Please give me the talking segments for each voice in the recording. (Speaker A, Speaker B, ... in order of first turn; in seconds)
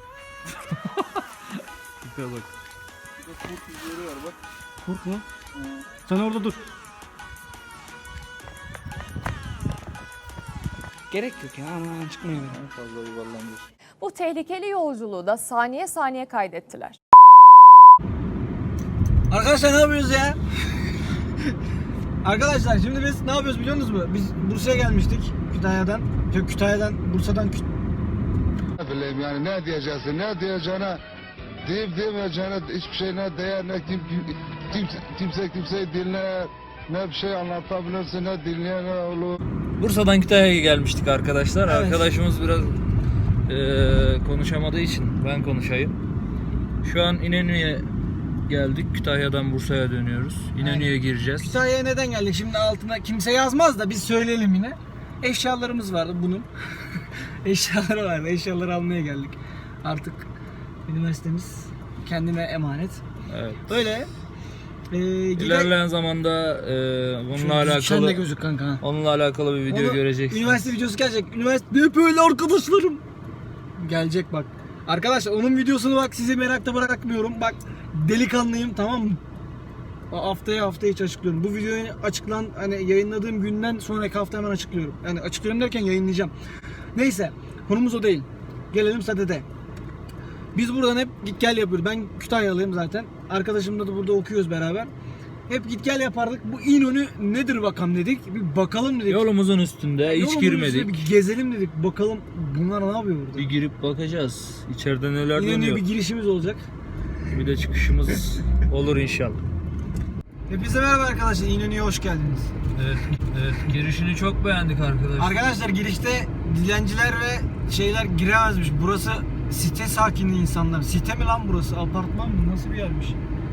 Speaker A: 0.5-2.5, 3.2-4.4, 5.5-5.8, 12.4-13.7, 39.8-42.8, 43.5-46.0, 46.8-47.9, 48.4-51.6, 63.3-63.7, 65.4-68.2, 68.8-70.7, 99.1-100.9, 103.4-105.8, 107.3-109.4, 112.7-115.4
Speaker B: 4.8-5.2, 6.0-6.6, 11.1-12.6, 19.3-20.4, 22.2-27.6, 41.6-42.1, 50.6-56.5, 57.4-60.3, 60.9-63.0, 63.7-64.1, 64.9-65.7, 67.3-68.8, 69.7-73.0, 73.8-79.2, 80.1-86.3, 86.9-89.5, 90.5-94.9, 95.5-99.2, 100.0-103.5, 105.3-106.7, 110.5-112.5, 115.2-123.2
Speaker C: 14.0-17.0
Speaker D: 28.8-31.0, 31.6-39.4